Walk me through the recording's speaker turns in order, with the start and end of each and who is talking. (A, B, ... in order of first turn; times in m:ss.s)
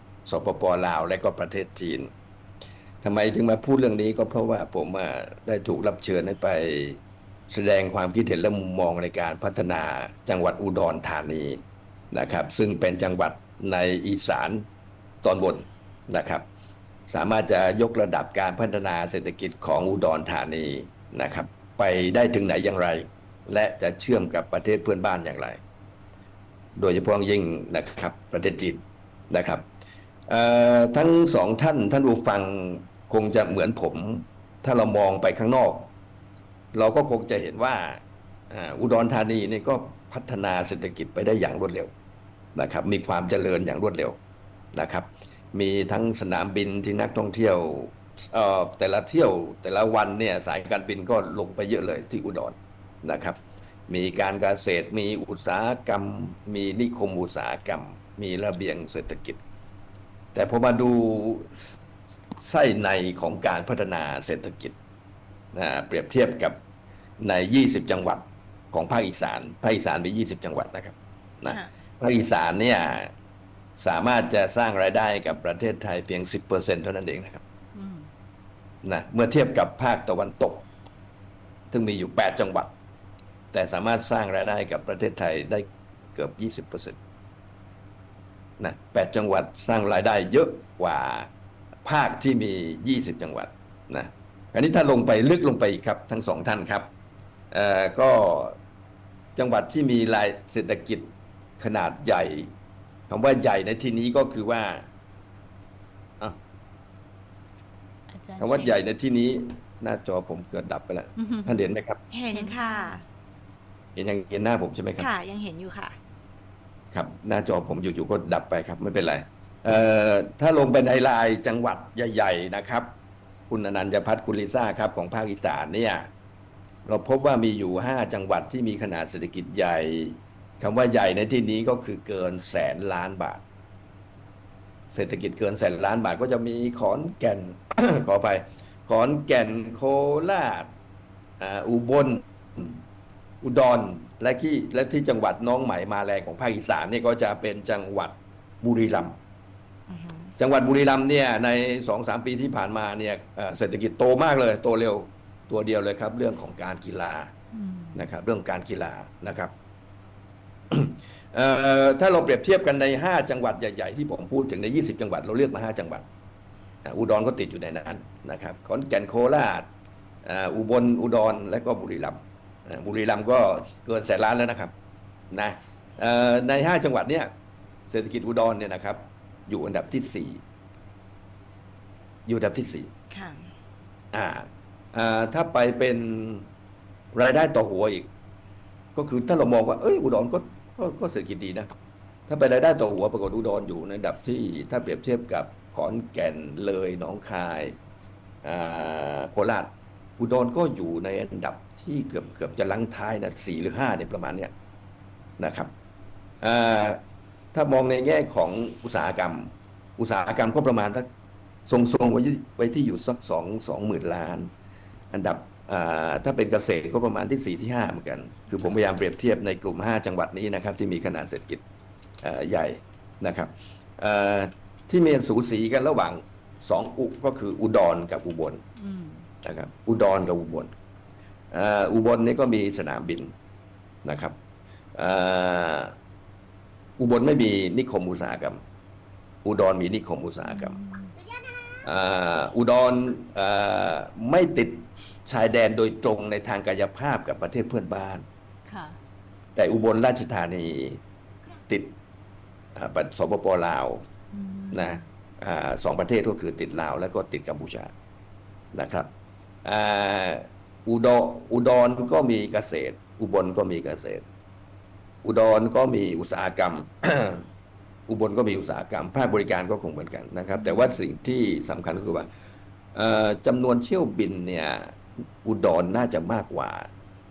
0:00.2-0:02.1 A
0:03.0-0:14.7 A
0:15.2-0:16.5 A
0:17.1-0:25.6 A
0:26.8-0:29.6 A
0:30.3-0:35.9 A
0:36.7-0:41.9 A
0:42.6-0:44.2 A
0:44.7-0:59.4 A
1:00.3-1:01.8 A
1:02.4-1:04.8 A
1:05.5-1:06.6 A
1:07.2-1:13.1 A
1:13.8-1:17.4 A
1:17.7-1:18.1 B
1:18.8-1:20.7 A
1:21.7-1:22.7 A
1:23.5-1:27.0 A
1:28.6-1:31.3 A
1:31.8-1:36.9 A
1:37.5-1:38.6 A
1:39.4-1:42.5 A
1:43.1-1:44.9 A
1:48.1-1:48.8 B
1:48.4-1:52.0 A
1:51.2-1:51.6 B
1:52.1-1:53.0 C
1:52.3-1:53.0 B
1:54.0-1:55.1 A
1:55.0-1:56.0 C
1:56.9-2:02.9 A
2:03.5-2:06.1 A
2:06.8-2:13.4 A
2:14.9-2:20.7 A
2:21.4-2:22.8 A
2:23.4-2:29.2 A
2:29.9-2:30.3 C
2:30.4-2:37.3 A
2:37.5-2:38.0 B
2:37.9-2:39.5 A
2:40.7-2:46.1 A
2:46.8-2:49.7 A
2:50.2-2:54.7 A
2:55.3-2:57.3 A
2:57.9-3:00.4 A
3:02.3-3:02.9 A
3:03.1-3:03.5 C
3:04.1-3:06.5 A
3:07.1-3:08.1 A
3:09.0-3:11.7 A
3:12.3-3:17.8 A
3:18.4-3:24.5 A
3:25.4-3:25.7 A
3:26.4-3:27.0 A
3:27.5-3:31.1 A
3:31.7-3:34.5 A
3:35.1-3:41.6 A
3:42.2-3:48.6 A
3:48.8-3:49.3 B
3:49.4-3:50.7 A
3:51.5-3:53.3 A
3:54.0-3:54.4 A
3:55.0-3:56.0 A
3:57.0-3:58.6 A
3:59.4-4:00.8 A
4:00.4-4:01.2 B
4:01.8-4:08.3 A
4:08.7-4:09.0 B
4:09.6-4:11.0 A
4:11.7-4:12.0 A
4:12.8-4:14.1 A
4:14.3-4:15.0 B
4:14.7-4:17.9 A
4:18.7-4:19.1 A
4:19.6-4:24.2 A
4:25.2-4:27.5 A
4:28.1-4:32.3 A
4:30.5-4:31.0 B
4:32.9-4:36.9 A